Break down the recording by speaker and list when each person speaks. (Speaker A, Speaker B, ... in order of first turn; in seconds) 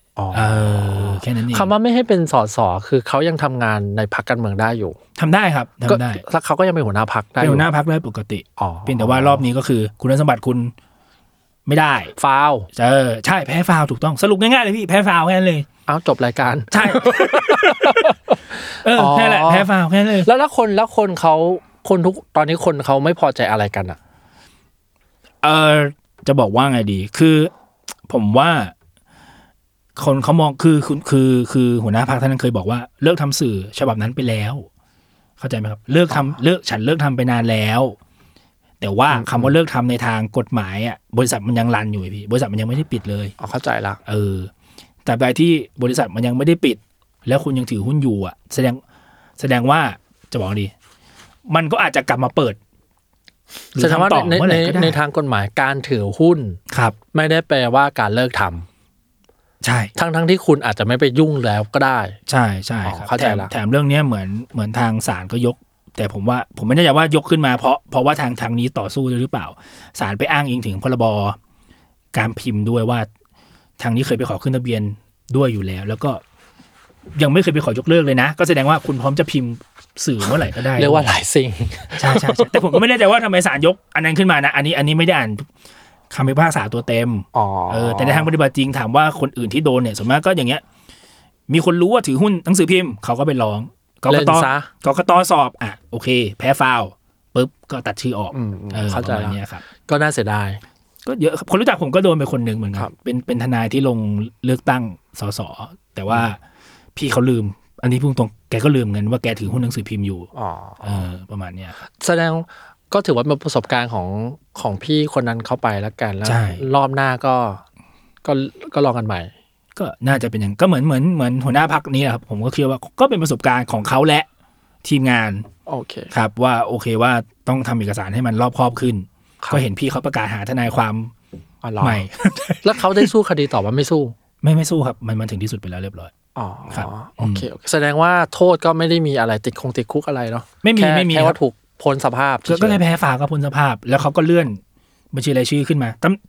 Speaker A: 0.2-5.0, 5.9-7.7, 8.6-9.4, 12.2-12.7, 15.9-19.7, 20.2-24.0, 39.1-39.5, 43.4-44.0, 53.8-56.6, 57.1-58.7, 60.0-62.2, 62.8-63.5, 80.7-82.8, 87.3-88.3, 94.1-94.7, 98.3-100.6, 110.3-111.1, 112.0-117.6, 118.2-119.3, 125.7-126.1, 131.6-132.0, 132.6-134.1, 136.3-142.8
Speaker B: 0.3-1.7, 5.2-6.2, 7.4-10.7, 11.7-12.1, 12.7-15.7, 16.7-18.1, 18.8-20.3, 25.4-27.5, 28.1-28.7, 29.9-34.7, 35.4-38.0, 38.8-43.3, 44.0-44.5, 45.0-48.8, 49.4-50.7, 51.5-52.6, 53.7-55.0, 56.7-57.0, 59.6-59.9, 62.3-71.4, 72.1-73.1, 73.8-76.2, 77.1-81.1, 82.0-85.5, 86.1-90.6, 91.5-99.6, 101.0-106.4, 107.0-110.3, 110.8-111.7, 116.2-116.6, 119.8-124.3, 124.8-125.5, 126.1-131.1, 131.8-133.1, 134.4-136.1, 136.7-137.4, 140.6-141.4, 142.5-144.6, 145.1-146.2